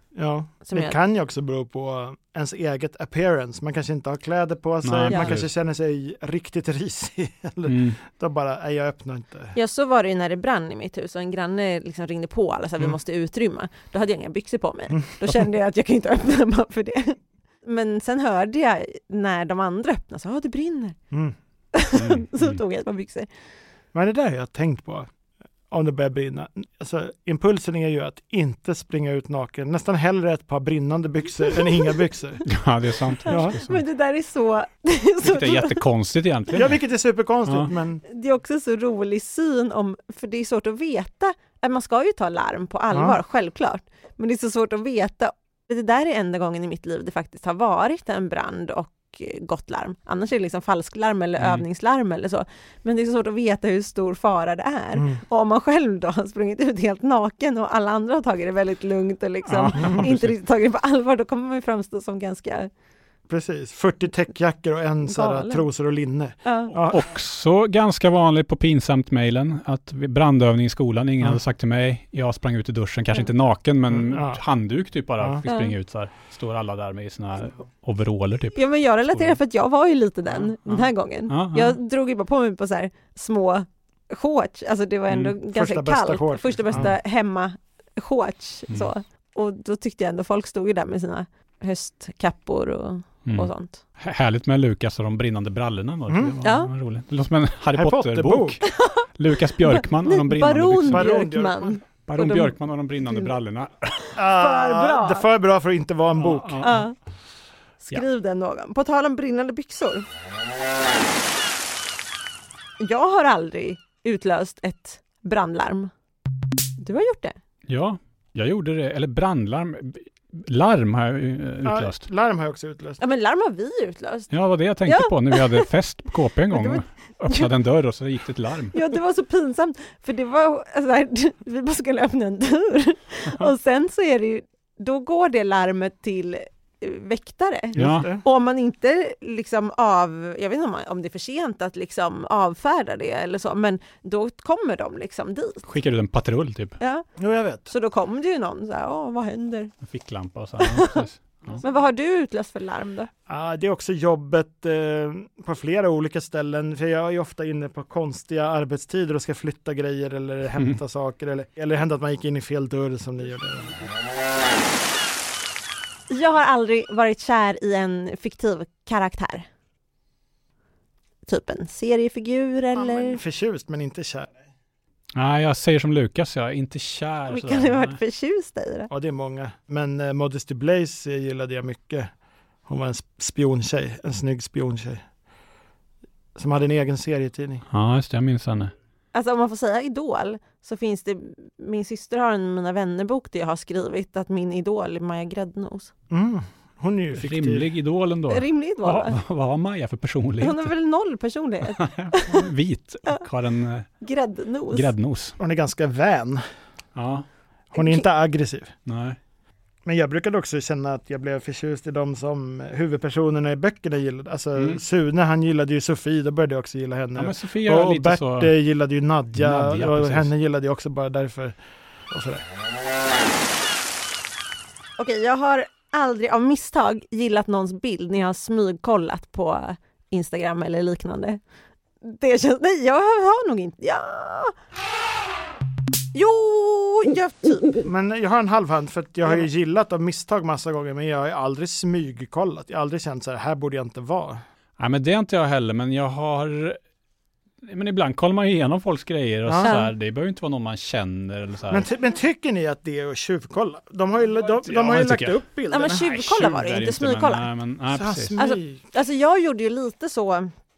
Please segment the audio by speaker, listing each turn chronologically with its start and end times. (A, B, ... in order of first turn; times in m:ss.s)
0:00.2-0:09.6 A
0:00.6-0:01.0 B
0:04.8-0:05.5 C
0:05.1-0:05.4 B
0:07.7-0:08.0 C
0:09.5-0:21.0 B
0:14.9-0:15.4 A
0:21.7-0:23.3 B
0:21.9-0:22.6 C
0:23.9-0:25.1 A
0:25.7-0:32.4 A
0:31.5-0:32.0 B
0:32.4-0:33.8 C
0:33.2-0:35.8 B
0:33.2-0:33.6 A
0:35.2-0:36.8 C
0:36.5-0:38.0 A
0:37.5-0:37.7 C
0:38.1-1:02.7 B
0:42.9-0:43.2 A
0:51.4-0:51.6 C
0:55.0-0:55.2 A
0:59.4-1:00.3 C
0:59.8-1:00.1 A
1:03.3-1:07.0 A
1:05.0-1:05.7 B
1:06.4-1:06.8 B
1:06.7-1:19.4 C
1:13.9-1:14.4 A
1:15.5-1:15.8 B
1:18.5-1:33.8 B
1:20.7-1:21.8 C
1:25.1-1:25.4 C
1:25.5-1:27.0 A
1:33.2-1:41.2 C
1:36.1-1:36.4 A
1:36.4-1:36.7 B
1:37.7-1:38.6 A
1:38.6-1:43.3 B
1:40.9-1:41.8 A
1:42.1-1:44.2 C
1:44.2-1:46.6 A
1:44.2-1:45.2 B
1:46.2-1:46.9 C
1:46.6-1:47.0 B
1:47.8-1:50.1 B
1:52.8-1:55.9 B
1:56.8-1:57.4 B
1:57.7-2:02.0 C
2:01.6-2:03.0 A
2:03.0-2:04.3 B
2:04.3-2:08.8 C
2:04.8-2:05.7 B
2:06.5-2:07.5 B
2:08.7-2:25.6 B
2:17.7-2:18.2 A
2:17.8-2:18.1 C
2:25.7-2:26.8 C
2:26.8-2:27.1 B
2:27.2-2:27.7 A
2:27.7-2:29.7 B
2:29.8-2:31.6 C
2:30.6-2:31.0 B
2:31.6-2:33.1 B
2:33.3-2:43.8 A
2:46.1-2:49.5 B
2:51.2-2:53.2 B
2:52.7-2:54.3 A
2:55.2-2:58.0 C
2:57.3-2:58.9 B
2:58.9-3:02.1 A
3:02.7-3:05.0 A
3:06.4-3:07.6 A
3:07.7-3:08.7 C
3:09.1-3:15.9 B
3:16.1-3:17.7 A
3:17.2-3:20.7 C
3:18.3-3:19.2 B
3:20.4-3:22.5 B
3:21.8-3:23.9 C
3:24.0-3:24.9 B
3:24.7-3:25.4 C
3:25.4-3:26.4 A
3:27.0-3:27.2 C
3:27.7-3:28.7 A
3:27.8-3:28.0 B
3:28.9-3:29.2 C
3:29.8-3:41.6 A
3:34.6-3:34.8 C
3:37.2-3:38.5 C
3:39.4-3:40.3 C
3:42.1-3:42.4 A
3:45.0-3:51.4 B
3:52.0-3:54.5 B
3:56.1-3:57.8 B
3:57.8-4:04.4 A
4:04.8-4:06.8 C
4:07.6-4:11.8 C
4:09.5-4:09.8 A
4:09.6-4:09.9 B
4:11.7-4:16.2 A
4:14.6-4:15.4 C
4:15.7-4:17.5 B
4:16.1-4:18.4 C
4:17.9-4:18.9 A
4:18.4-4:20.5 B